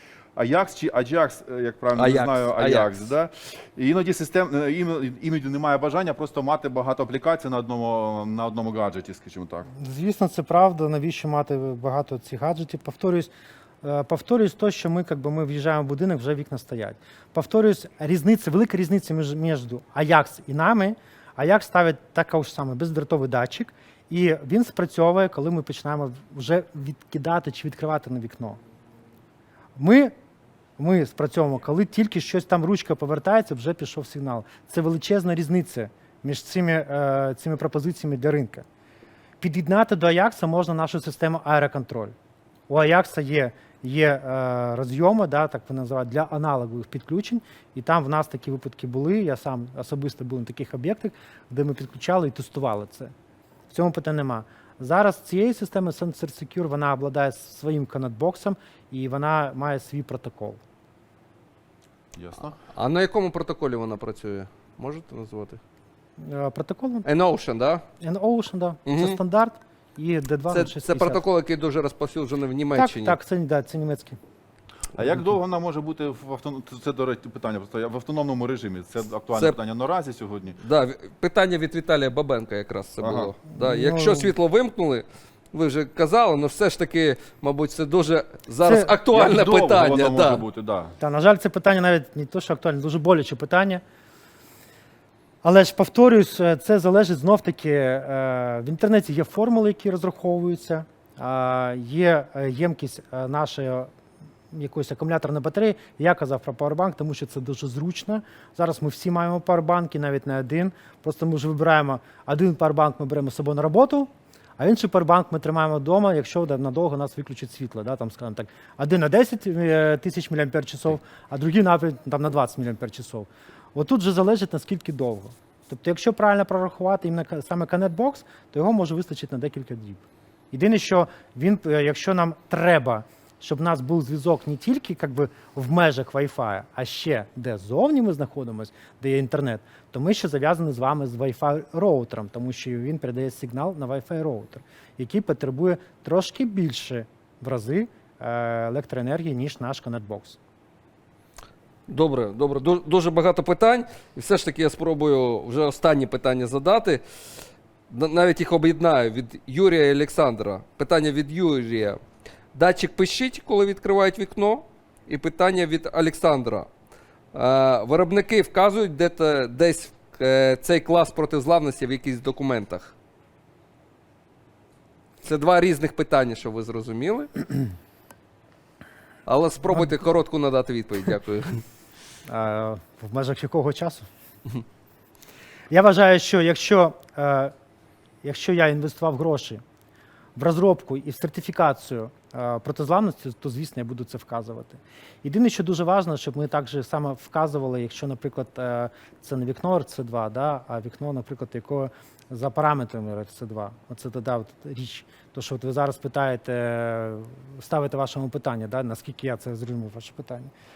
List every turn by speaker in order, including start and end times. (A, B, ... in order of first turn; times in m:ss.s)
0:00.3-0:09.7 A
0:02.0-0:02.9 B
0:09.7-0:13.3 C
0:13.8-0:28.6 C
0:29.8-0:30.1 C
0:30.8-0:38.6 C
0:39.4-0:42.1 C
0:42.7-0:53.1 C
0:53.7-1:00.6 C
1:02.1-1:02.6 A
1:02.7-1:05.6 B
1:06.2-1:07.1 C
1:07.0-1:07.8 B
1:08.0-1:11.2 C
1:08.9-1:09.2 B
1:10.5-1:13.2 B
1:12.7-1:14.2 C
1:14.9-1:20.6 A
1:20.6-1:30.4 B
1:23.0-1:23.3 A
1:23.5-1:24.3 C
1:28.6-1:28.9 C
1:29.0-1:30.9 A
1:31.0-1:33.8 C
1:35.4-1:43.9 C
1:44.5-2:30.4 C
2:31.9-2:37.0 B
2:37.9-2:42.0 B
2:42.5-2:46.7 B
2:47.3-2:52.9 B
2:55.2-2:57.4 B
2:59.2-3:01.6 B
3:02.3-3:04.1 C
3:05.7-3:07.5 C
3:08.2-3:09.6 C
3:10.4-3:30.5 C